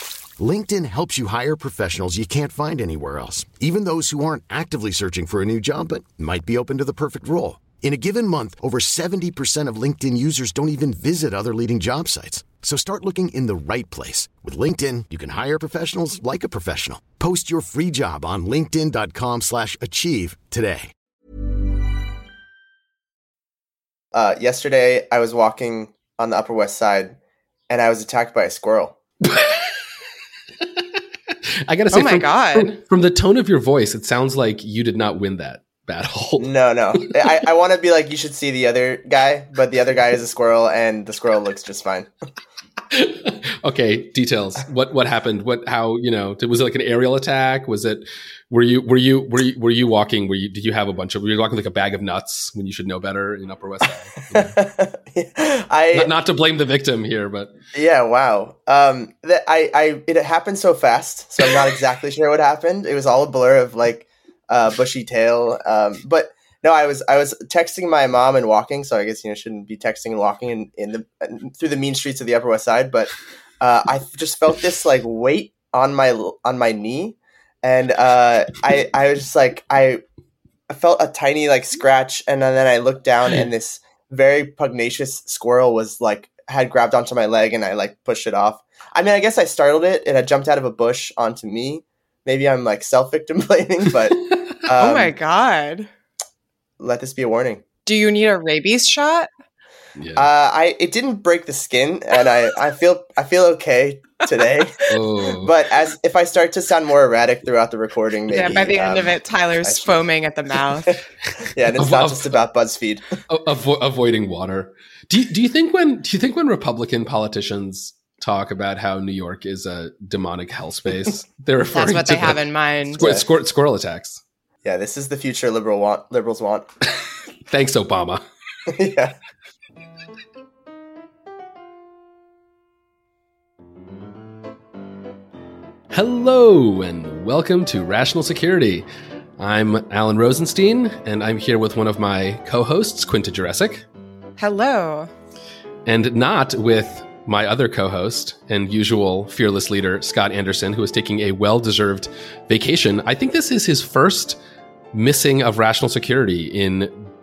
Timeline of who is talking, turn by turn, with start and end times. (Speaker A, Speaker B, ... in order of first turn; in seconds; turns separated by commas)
Speaker A: 0.4-20.9, Speaker B: 24.1-27.2, Speaker B: 27.7-29.0, Speaker C: 29.2-29.8, Speaker C: 31.6-36.5, Speaker D: 31.9-32.8, Speaker B: 36.4-42.1, Speaker C: 42.9-54.5, Speaker B: 54.3-56.1, Speaker C: 55.9-57.5, Speaker B: 57.7-80.0, Speaker B: 80.7-95.1, Speaker D: 94.8-95.9, Speaker B: 96.8-97.6, Speaker D: 97.8-99.3, Speaker C: 100.0-100.3, Speaker B: 100.2-110.0, Speaker C: 104.9-105.5, Speaker D: 108.3-111.0, Speaker B: 111.4-113.2, Speaker C: 111.7-112.3, Speaker C: 113.3-124.2, Speaker D: 121.7-123.2, Speaker B: 124.6-126.7, Speaker C: 127.5-128.2, Speaker B: 128.7-129.1, Speaker C: 135.9-138.8, Speaker C: 139.4-143.8, Speaker D: 144.4-145.1, Speaker C: 145.8-154.4, Speaker C: 154.9-156.9